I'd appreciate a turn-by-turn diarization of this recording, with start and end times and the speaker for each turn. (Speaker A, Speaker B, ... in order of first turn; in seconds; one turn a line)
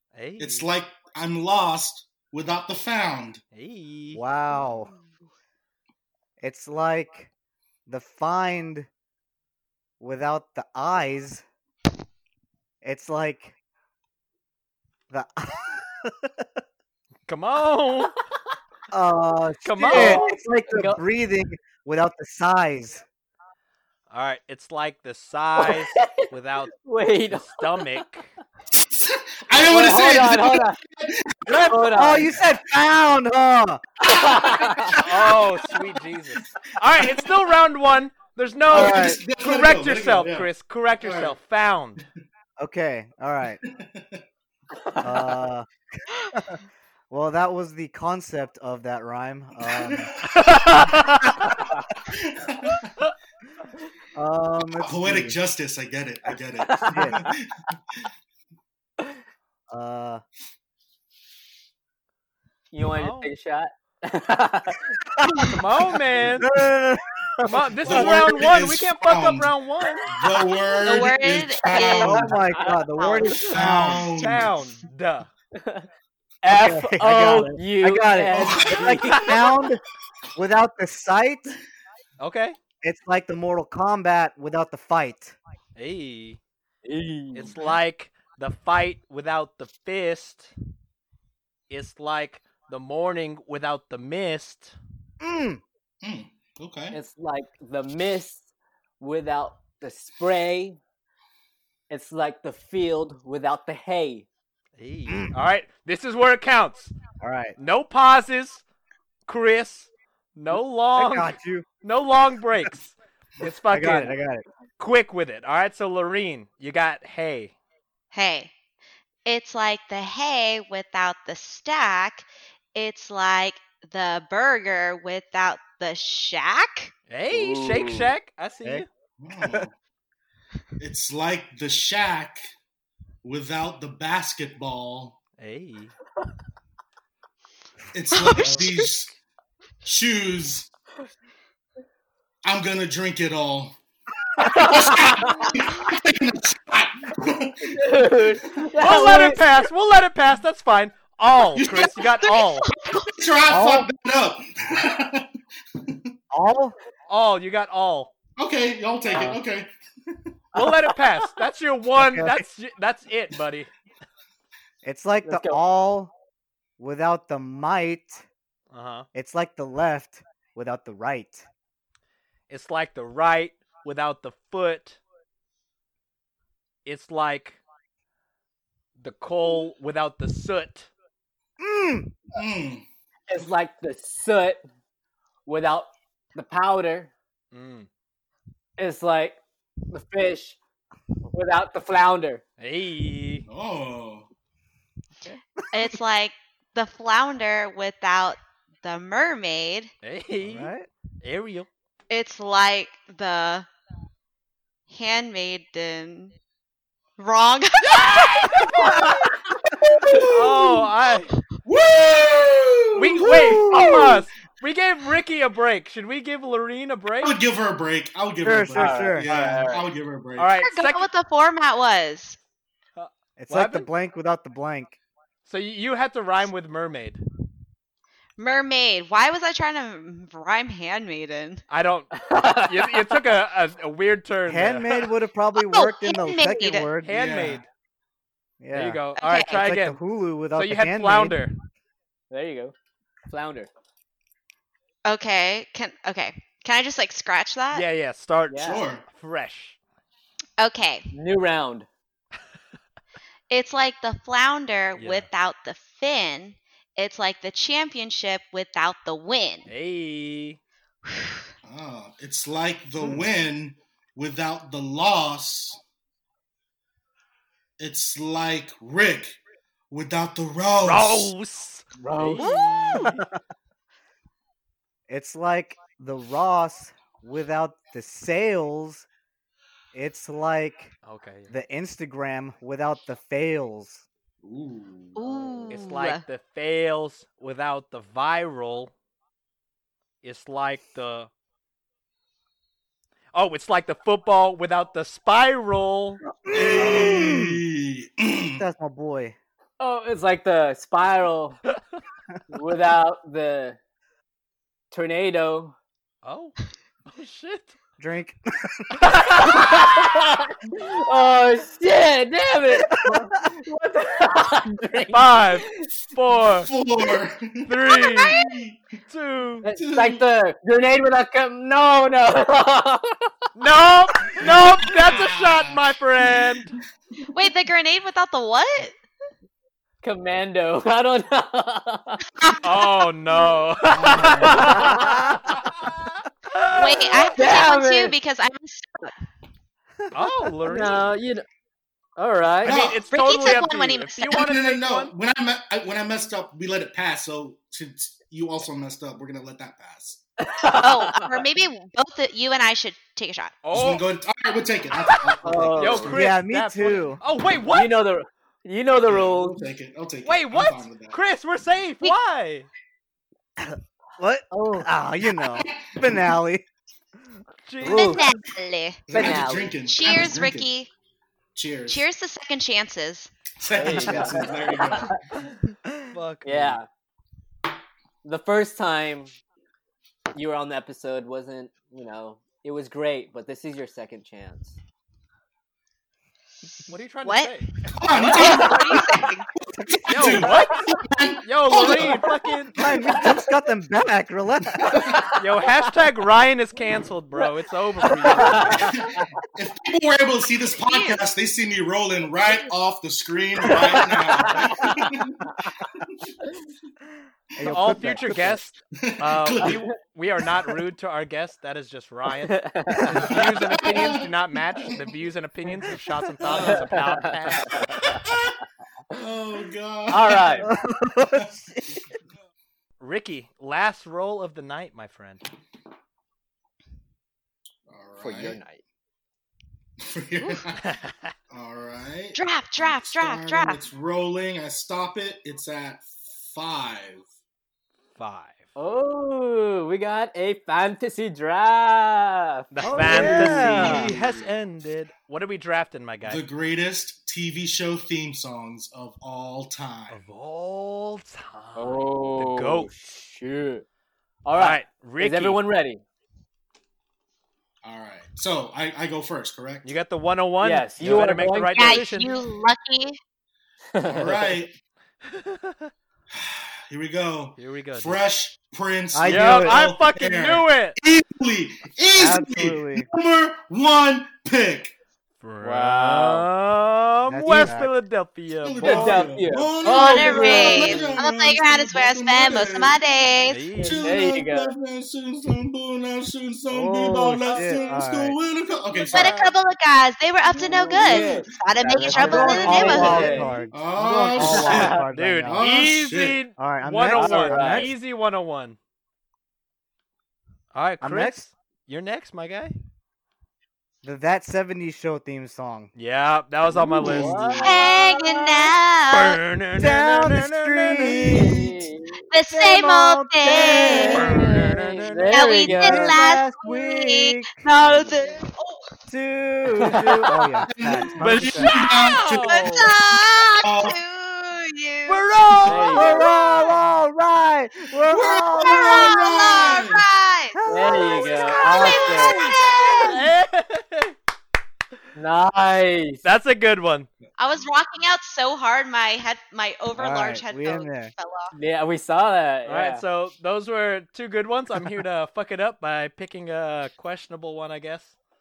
Speaker A: 0.1-0.7
Speaker B: 0.4-3.4
Speaker A: 3.5-4.2
Speaker C: 4.1-4.9
Speaker C: 6.4-7.3
Speaker C: 7.9-8.9
Speaker C: 10.0-11.4
Speaker C: 12.8-13.6
Speaker C: 15.1-16.5
Speaker A: 17.3-18.1
Speaker C: 18.9-23.0
Speaker A: 19.6-20.3
Speaker D: 19.9-21.0
Speaker A: 24.1-26.7
Speaker D: 25.6-26.3
Speaker D: 26.8-28.0
Speaker A: 27.3-28.3
Speaker B: 28.8-31.7
Speaker D: 29.6-30.8
Speaker C: 31.5-33.8
Speaker D: 31.5-32.3
Speaker D: 34.0-35.0
Speaker A: 34.9-42.0
Speaker B: 37.0-37.3
Speaker C: 38.7-39.2
Speaker B: 38.7-41.4
Speaker C: 42.6-43.6
Speaker B: 43.6-44.2
Speaker C: 45.0-45.7
Speaker C: 47.1-50.1
Speaker B: 49.7-50.8
Speaker A: 50.3-51.4
Speaker B: 52.1-52.9
Speaker C: 54.2-55.4
Speaker B: 54.8-57.5
Speaker D: 56.6-57.1
Speaker C: 56.9-57.2
Speaker C: 59.7-60.2
Speaker D: 62.7-65.0
Speaker A: 62.9-63.3
Speaker C: 65.2-65.5
Speaker A: 65.4-66.5
Speaker C: 66.4-68.2
Speaker A: 67.5-70.1
Speaker B: 67.8-72.4
Speaker E: 70.8-72.3
Speaker C: 71.9-74.1
Speaker E: 72.9-73.5
Speaker B: 73.4-74.5
Speaker A: 73.9-75.3
Speaker D: 75.5-75.9
Speaker D: 76.4-79.4
Speaker C: 76.5-79.8
Speaker B: 78.4-79.0
Speaker C: 80.4-81.5
Speaker A: 82.2-82.6
Speaker C: 82.8-85.4
Speaker A: 85.8-86.4
Speaker D: 86.8-87.5
Speaker A: 87.3-90.5
Speaker A: 91.7-94.8
Speaker C: 95.2-95.6
Speaker B: 96.0-97.0
Speaker D: 96.9-98.5
Speaker D: 99.0-100.8
Speaker D: 101.9-104.3
Speaker A: 104.8-106.9
Speaker C: 105.1-105.3
Speaker C: 107.2-107.6
Speaker A: 107.6-108.7
Speaker A: 109.3-114.2
Speaker C: 110.5-111.7
Speaker C: 113.7-114.5
Speaker A: 114.8-117.5
Speaker E: 118.1-118.5
Speaker E: 119.3-126.9
Speaker A: 127.1-128.9
Speaker D: 127.3-128.1
Speaker C: 128.6-129.7
Speaker B: 129.2-129.7
Speaker B: 130.8-132.5
Speaker B: 133.2-135.2
Speaker A: 135.4-135.9
Speaker B: 137.9-139.1
Speaker E: 138.1-138.9
Speaker B: 139.8-140.7
Speaker B: 142.4-143.8
Speaker D: 144.4-145.5
Speaker B: 144.4-147.8
Speaker D: 147.6-149.4
Speaker A: 148.8-152.7
Speaker B: 151.5-152.0
Speaker E: 152.2-153.1
Speaker B: 153.1-155.3
Speaker C: 153.5-153.9
Speaker C: 156.3-156.8
Speaker A: 157.1-158.1
Speaker B: 158.4-160.2
Speaker A: 160.6-163.7
Speaker C: 162.0-162.4
Speaker C: 164.8-166.1
Speaker D: 165.2-165.6
Speaker C: 166.8-168.2
Speaker A: 168.7-169.1
Speaker C: 169.1-171.5
Speaker A: 172.5-175.0
Speaker A: 176.8-177.6
Speaker A: 179.0-180.9
Speaker C: 181.6-182.2
Speaker B: 182.3-182.8
Speaker D: 183.3-184.6
Speaker D: 185.5-187.1
Speaker A: 187.5-187.9
Speaker D: 188.8-189.4
Speaker D: 189.9-190.6
Speaker D: 191.3-192.4
Speaker A: 192.6-193.4
Speaker B: 193.5-194.3
Speaker C: 195.2-195.9
Speaker E: 195.7-199.9
Speaker A: 200.0-201.7
Speaker C: 200.4-200.9
Speaker E: 202.1-203.7
Speaker E: 204.9-206.3
Speaker E: 207.2-208.7
Speaker A: 207.9-209.0
Speaker B: 210.0-210.8
Speaker A: 210.3-211.3
Speaker B: 211.7-213.9
Speaker A: 213.0-217.3
Speaker C: 213.2-214.2
Speaker B: 217.2-220.5
Speaker C: 218.4-219.3
Speaker D: 218.7-219.9
Speaker A: 220.4-221.1
Speaker E: 220.6-222.4
Speaker A: 223.0-223.9
Speaker C: 223.4-225.0
Speaker A: 225.5-227.2
Speaker E: 228.4-231.6
Speaker A: 231.7-235.1
Speaker D: 232.2-233.2
Speaker C: 234.5-237.2
Speaker E: 235.6-236.9
Speaker A: 237.0-237.7
Speaker B: 237.1-237.6
Speaker C: 238.6-241.5
Speaker A: 238.7-240.0
Speaker E: 239.2-239.6
Speaker A: 240.5-241.5
Speaker D: 242.3-242.7
Speaker D: 243.3-243.7
Speaker E: 245.1-247.8
Speaker A: 247.7-249.8
Speaker D: 248.5-248.8
Speaker B: 248.6-249.1
Speaker E: 250.6-251.1
Speaker D: 251.1-251.9
Speaker E: 253.5-259.7
Speaker A: 255.0-255.3
Speaker A: 259.7-260.6
Speaker E: 261.1-261.4
Speaker B: 261.6-265.8
Speaker B: 267.8-269.4
Speaker B: 269.9-271.3
Speaker A: 270.8-273.3
Speaker D: 272.0-272.4
Speaker C: 272.4-273.3
Speaker C: 275.1-279.1
Speaker C: 279.9-280.9
Speaker A: 281.1-281.5
Speaker C: 281.5-284.1
Speaker B: 284.4-285.7
Speaker E: 285.2-286.2
Speaker A: 285.7-288.9
Speaker A: 290.2-291.3
Speaker A: 293.3-296.2
Speaker C: 296.4-297.6
Speaker B: 296.5-298.6
Speaker C: 298.6-299.4
Speaker D: 299.8-301.6
Speaker D: 302.5-303.8
Speaker D: 304.9-305.8
Speaker A: 306.2-306.6
Speaker A: 307.1-307.8
Speaker C: 308.0-309.1
Speaker A: 309.0-310.2
Speaker D: 309.4-315.4
Speaker C: 312.9-313.4
Speaker A: 315.1-316.7
Speaker B: 316.5-318.8
Speaker A: 317.7-318.4
Speaker E: 317.9-318.6
Speaker A: 319.1-319.7
Speaker D: 319.6-323.3
Speaker B: 319.8-320.2
Speaker A: 323.6-326.7
Speaker B: 324.4-325.8
Speaker E: 327.3-328.9
Speaker D: 330.0-332.2
Speaker A: 332.6-335.9
Speaker B: 333.9-335.0
Speaker D: 334.4-335.1
Speaker A: 336.5-337.4
Speaker E: 336.7-339.1
Speaker D: 337.4-338.1
Speaker A: 340.1-341.1
Speaker D: 340.7-341.4
Speaker D: 342.2-342.8
Speaker B: 342.6-343.1
Speaker A: 342.6-345.1
Speaker E: 343.1-344.4
Speaker B: 344.3-350.2
Speaker D: 350.4-351.4
Speaker E: 350.8-353.6
Speaker A: 353.6-354.0
Speaker B: 353.7-356.2
Speaker A: 355.0-358.0
Speaker D: 355.4-356.1
Speaker C: 356.1-357.2
Speaker D: 357.7-359.6
Speaker B: 359.1-361.2
Speaker A: 360.2-362.7
Speaker C: 363.6-366.6
Speaker B: 365.5-366.3
Speaker A: 367.7-368.2
Speaker C: 367.8-368.2
Speaker E: 367.9-369.3
Speaker B: 369.1-370.7
Speaker D: 369.1-369.7
Speaker E: 369.9-370.9
Speaker B: 371.6-372.1
Speaker E: 371.9-373.3
Speaker B: 373.6-375.2
Speaker D: 373.7-375.1
Speaker A: 376.1-376.8
Speaker D: 376.4-376.9
Speaker D: 378.2-379.4
Speaker D: 380.3-384.8
Speaker A: 386.9-387.8
Speaker E: 387.2-387.5
Speaker B: 387.9-389.1
Speaker E: 388.2-389.5
Speaker C: 389.8-390.5
Speaker B: 389.9-392.3
Speaker A: 390.1-390.8
Speaker A: 391.4-392.7
Speaker C: 392.8-395.0
Speaker B: 394.8-395.2
Speaker D: 395.1-395.4
Speaker A: 395.4-398.9
Speaker D: 398.2-399.3
Speaker B: 398.6-405.4
Speaker E: 400.8-401.2
Speaker D: 404.4-405.7
Speaker C: 407.6-408.6
Speaker A: 407.6-417.9
Speaker B: 409.0-409.9
Speaker D: 412.5-413.4
Speaker B: 413.1-414.3
Speaker B: 416.5-416.8
Speaker D: 416.5-418.2
Speaker B: 418.0-418.6
Speaker B: 419.1-420.6
Speaker D: 420.1-420.7
Speaker C: 420.6-422.0
Speaker A: 423.0-425.4
Speaker B: 427.9-428.6
Speaker D: 428.2-428.8
Speaker B: 430.0-430.9
Speaker A: 430.8-431.3
Speaker B: 431.5-437.2
Speaker E: 432.4-433.8
Speaker A: 438.2-438.6
Speaker D: 438.8-444.0
Speaker A: 442.7-446.4
Speaker C: 442.8-444.2
Speaker B: 443.1-444.4
Speaker B: 446.2-450.2
Speaker A: 450.1-452.9
Speaker D: 451.8-453.9
Speaker D: 454.4-456.0
Speaker A: 454.5-455.6
Speaker B: 457.8-459.9
Speaker A: 459.9-462.4
Speaker D: 460.6-462.0
Speaker E: 461.7-463.2
Speaker D: 463.9-464.6
Speaker B: 464.0-464.7
Speaker A: 465.3-465.9
Speaker B: 466.3-474.9
Speaker A: 467.6-468.2
Speaker C: 469.1-469.8
Speaker A: 469.3-471.0
Speaker C: 472.1-473.1
Speaker A: 475.4-479.2
Speaker D: 475.6-476.5
Speaker C: 477.3-477.9
Speaker B: 478.6-483.0
Speaker D: 478.8-481.2
Speaker E: 479.9-483.7
Speaker A: 483.5-484.1
Speaker B: 483.7-489.5
Speaker D: 484.0-484.7
Speaker C: 486.7-488.4
Speaker D: 488.9-489.3
Speaker E: 489.1-493.5
Speaker D: 490.6-493.6
Speaker B: 490.9-491.5
Speaker C: 492.0-495.6
Speaker A: 492.4-493.2
Speaker B: 493.7-496.5
Speaker D: 494.4-495.0
Speaker A: 495.1-498.8
Speaker C: 496.6-497.9
Speaker D: 497.1-497.9
Speaker A: 500.7-502.7
Speaker C: 501.0-501.4
Speaker C: 504.0-505.9
Speaker A: 505.9-507.8
Speaker D: 506.8-508.7
Speaker C: 507.0-507.6
Speaker E: 507.6-509.4
Speaker A: 509.1-511.6
Speaker C: 509.8-511.7
Speaker D: 511.2-512.1
Speaker E: 512.3-514.3
Speaker C: 512.5-514.7
Speaker D: 513.4-516.1
Speaker A: 513.9-515.4
Speaker E: 515.3-518.8
Speaker C: 515.7-518.0
Speaker C: 519.1-521.7
Speaker D: 519.8-520.4
Speaker B: 520.6-522.8
Speaker A: 521.2-522.9
Speaker E: 521.7-526.8
Speaker B: 523.6-524.0
Speaker A: 525.1-526.2
Speaker D: 525.7-526.2
Speaker C: 525.9-529.1
Speaker B: 528.1-530.1
Speaker E: 528.6-533.2
Speaker C: 530.5-533.2
Speaker D: 530.7-532.5
Speaker A: 533.0-534.1
Speaker D: 535.2-536.2
Speaker A: 536.2-537.1
Speaker E: 537.4-541.5
Speaker C: 540.0-541.1
Speaker D: 541.5-543.0
Speaker A: 542.7-548.1